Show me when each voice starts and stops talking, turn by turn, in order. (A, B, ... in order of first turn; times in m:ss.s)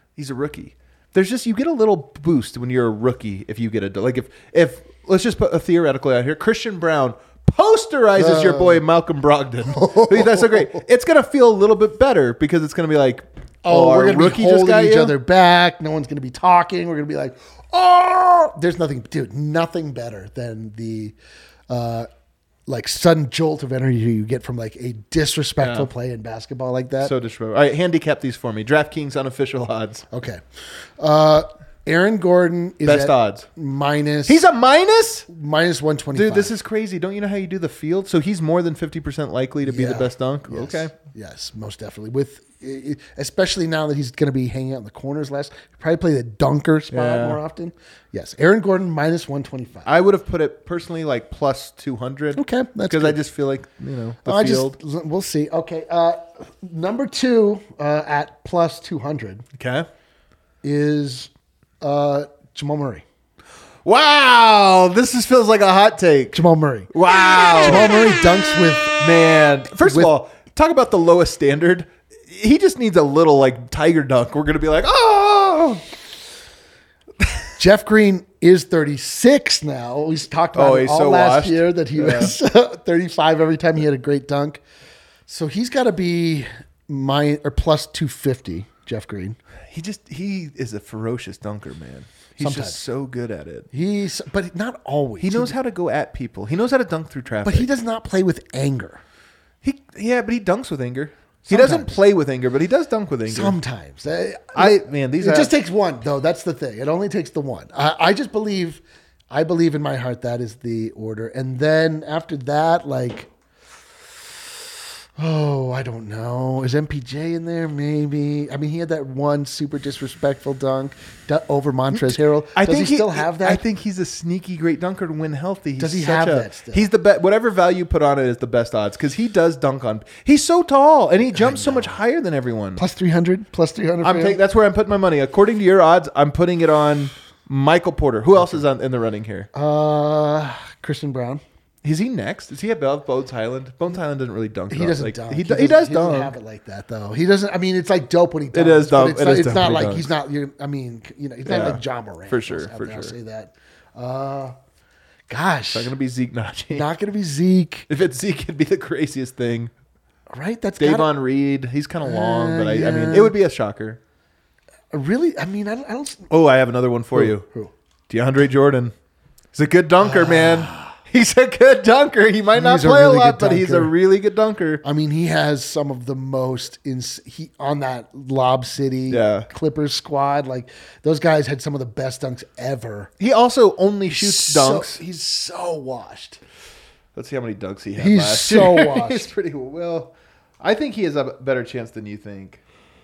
0:00.2-0:15.1 A
0:08.2-0:08.8 B
0:09.7-0:10.8 B
0:13.6-0:21.1 B
0:21.7-0:22.1 B
0:22.7-0:27.1 B
0:25.6-0:25.9 A
0:27.0-0:30.0 A
0:30.1-0:30.4 B
0:31.0-0:34.4 B
0:32.8-0:33.5 A
0:34.2-0:35.3 A
0:35.3-0:36.5 B
0:36.1-0:40.9 A
0:39.6-0:49.9 B
0:46.9-0:47.4 A
0:49.8-0:54.8 A
0:52.3-0:53.2 B
0:54.2-0:59.4 B
0:59.5-0:59.9 A
1:00.6-1:01.3 B
1:01.8-1:03.0 B
1:03.8-1:08.1 A
1:06.3-1:09.0 B
1:08.9-1:15.8 A
1:09.8-1:10.1 B
1:17.6-1:24.6 B
1:20.5-1:22.3 A
1:25.3-1:29.4 B
1:29.7-1:33.7 A
1:32.4-1:32.8 B
1:33.7-1:35.5 B
1:35.2-1:37.7 A
1:37.4-1:39.0 B
1:39.6-1:43.6 A
1:41.4-1:42.0 B
1:43.3-1:53.3 B
1:44.5-1:45.5 A
1:55.2-2:03.6 B
2:01.9-2:12.8 A
2:05.8-2:06.9 B
2:11.3-2:12.0 B
2:12.8-2:14.4 B
2:14.0-2:19.5 A
2:19.5-2:21.4 B
2:21.8-2:26.3 A
2:24.7-2:34.5 B
2:28.5-2:30.1 A
2:31.4-2:33.1 A
2:35.3-2:35.9 B
2:35.7-2:36.9 A
2:36.7-2:37.9 B
2:37.9-2:39.7 A
2:40.3-2:41.2 B
2:40.8-2:44.0 A
2:42.0-2:43.4 B
2:44.9-2:46.3 B
2:46.3-2:47.4 A
2:47.1-2:47.7 B
2:48.1-2:48.9 A
2:49.5-2:54.8 A
2:50.0-2:50.9 B
2:52.5-2:53.9 B
2:54.8-3:03.1 B
2:59.1-2:59.5 A
3:03.2-3:05.0 A
3:04.1-3:06.4 B
3:07.1-3:12.6 A
3:08.0-3:09.3 B